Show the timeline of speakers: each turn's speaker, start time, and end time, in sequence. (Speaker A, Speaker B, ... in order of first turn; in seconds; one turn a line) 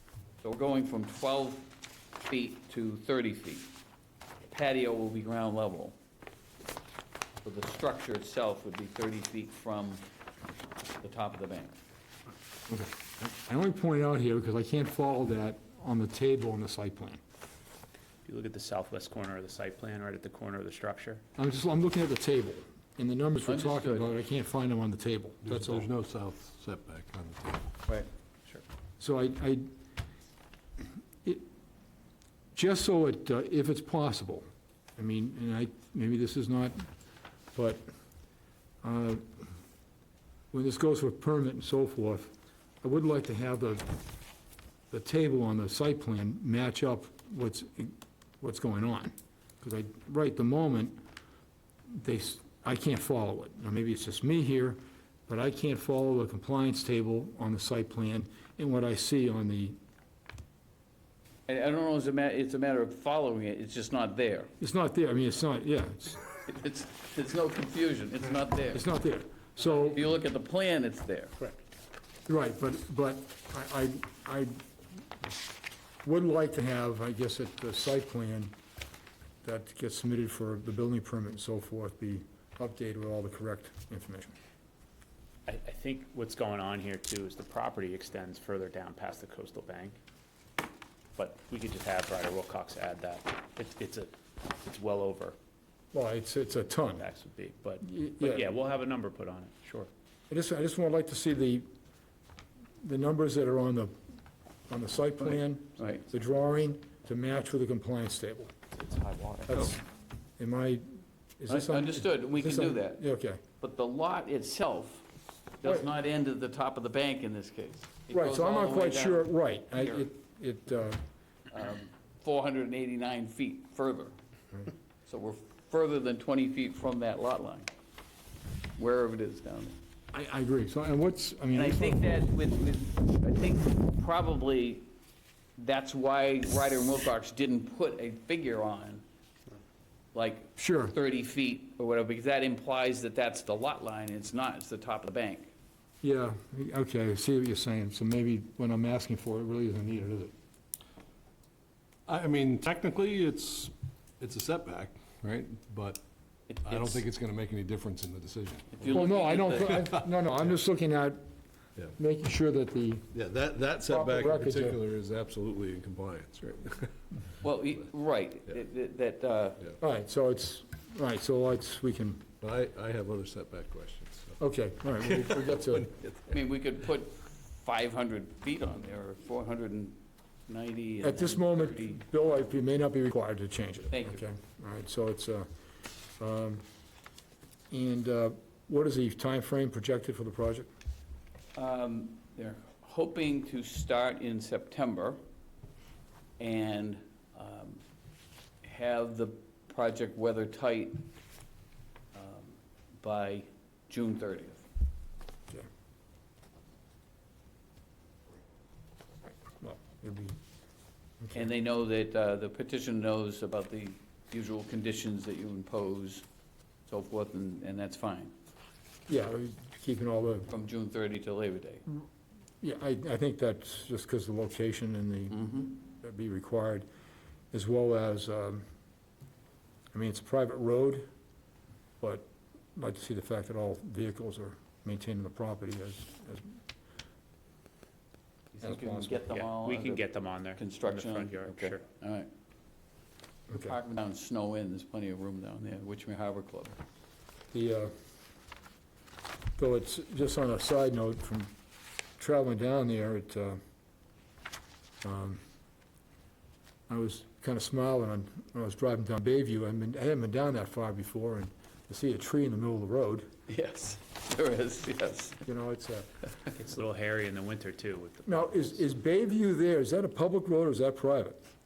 Speaker A: 0.4-1.7
Speaker A: 2.2-3.7
Speaker A: 4.5-6.0
Speaker A: 7.4-10.0
Speaker A: 11.0-11.8
Speaker B: 12.7-17.2
Speaker C: 18.2-21.2
Speaker B: 21.4-25.9
Speaker A: 23.4-24.1
Speaker D: 25.5-27.6
Speaker B: 29.0-29.7
Speaker B: 32.5-34.4
Speaker B: 35.0-36.9
Speaker B: 37.5-37.8
Speaker B: 38.8-39.4
Speaker B: 40.5-43.9
Speaker B: 44.9-51.0
Speaker B: 51.9-59.8
Speaker A: 61.5-64.5
Speaker B: 64.6-66.2
Speaker A: 66.4-68.8
Speaker B: 68.7-70.1
Speaker A: 69.6-71.3
Speaker B: 72.3-74.5
Speaker B: 76.0-78.5
Speaker B: 79.4-84.3
Speaker C: 85.5-90.0
Speaker C: 91.2-95.3
Speaker B: 95.9-97.1
Speaker C: 97.0-99.9
Speaker B: 97.8-98.5
Speaker B: 100.3-101.7
Speaker B: 102.8-103.9
Speaker B: 104.7-108.5
Speaker A: 105.8-106.0
Speaker C: 108.7-109.7
Speaker B: 109.5-109.8
Speaker B: 110.4-113.4
Speaker A: 111.5-113.0
Speaker A: 113.6-115.0
Speaker A: 115.6-120.0
Speaker B: 118.1-121.0
Speaker A: 121.5-124.2
Speaker A: 125.1-127.7
Speaker A: 128.8-129.8
Speaker B: 130.1-132.2
Speaker A: 131.5-134.9
Speaker A: 135.6-139.0
Speaker A: 140.1-145.5
Speaker B: 140.6-140.9
Speaker B: 146.0-150.3
Speaker D: 152.1-156.0
Speaker A: 156.5-157.0
Speaker D: 156.6-158.7
Speaker A: 158.8-159.9
Speaker B: 158.9-161.2
Speaker B: 161.9-163.1
Speaker D: 163.1-166.8
Speaker B: 163.9-164.8
Speaker A: 167.4-169.6
Speaker B: 169.8-172.3
Speaker D: 172.4-174.2
Speaker B: 174.4-175.9
Speaker A: 176.3-182.0
Speaker B: 181.0-185.5
Speaker A: 183.9-184.2
Speaker B: 186.2-186.6
Speaker B: 187.7-190.7
Speaker A: 191.5-195.2
Speaker A: 196.4-197.8
Speaker A: 198.6-201.1
Speaker A: 202.1-204.7
Speaker B: 209.4-210.3
Speaker B: 211.2-211.5
Speaker A: 211.3-216.2
Speaker A: 216.9-218.3
Speaker B: 219.1-220.5
Speaker A: 220.5-221.8
Speaker B: 222.6-226.8
Speaker A: 225.4-225.7
Speaker B: 227.5-228.6
Speaker B: 229.9-231.1
Speaker B: 232.0-236.6
Speaker A: 238.5-242.3
Speaker B: 238.6-239.2
Speaker C: 239.3-241.8
Speaker B: 243.5-243.8
Speaker A: 243.5-246.8
Speaker B: 247.5-247.9
Speaker B: 249.6-251.5
Speaker B: 252.2-253.6
Speaker B: 255.0-255.4
Speaker B: 256.9-263.3
Speaker A: 263.5-265.4
Speaker B: 265.4-266.1
Speaker C: 266.5-268.8
Speaker B: 268.2-271.4